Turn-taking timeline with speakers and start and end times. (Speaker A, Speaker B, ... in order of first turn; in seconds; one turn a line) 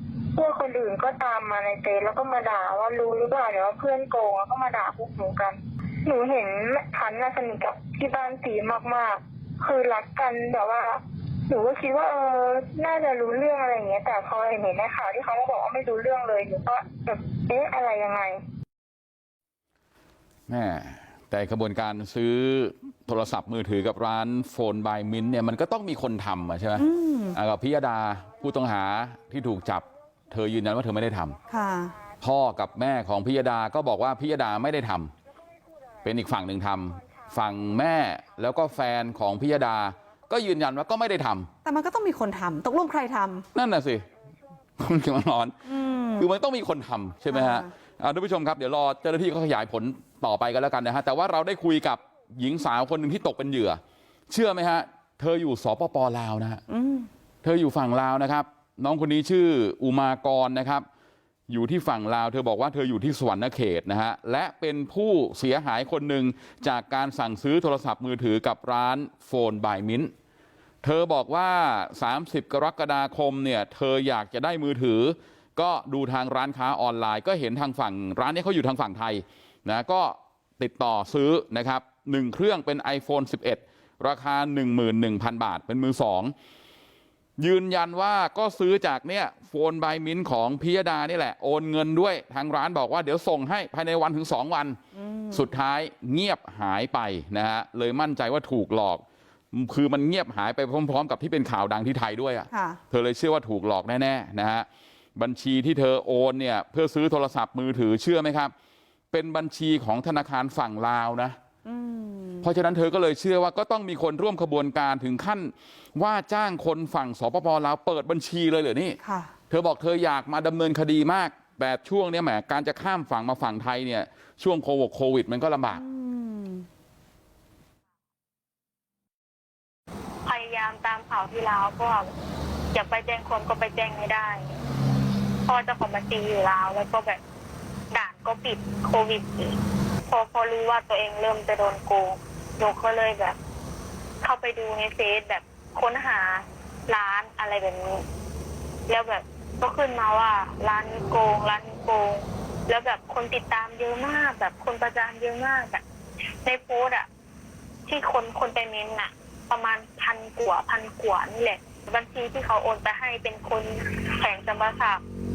Speaker A: 0.3-18.4
Speaker B: 20.5-31.4
Speaker C: 26.8-27.4
Speaker C: 31.5-31.9
Speaker B: 32.2-35.1
Speaker B: 36.0-41.5
Speaker C: 41.6-43.5
Speaker B: 43.5-44.1
Speaker B: 44.8-56.6
Speaker C: 45.6-46.2
Speaker C: 47.3-47.7
Speaker C: 56.7-57.1
Speaker B: 57.4-60.9
Speaker B: 61.5-70.1
Speaker B: 70.8-86.3
Speaker B: 87.4-94.8
Speaker C: 94.9-95.5
Speaker B: 95.3-108.5
Speaker C: 102.5-102.8
Speaker B: 109.1-111.4
Speaker C: 111.7-112.5
Speaker B: 112.4-119.0
Speaker C: 119.0-119.3
Speaker B: 119.5-125.8
Speaker C: 125.7-126.7
Speaker D: 130.2-132.1
Speaker D: 132.7-134.5
Speaker D: 135.4-137.2
Speaker D: 137.9-143.4
Speaker D: 144.2-148.0
Speaker D: 148.9-155.8
Speaker D: 156.4-157.1
Speaker D: 157.9-165.0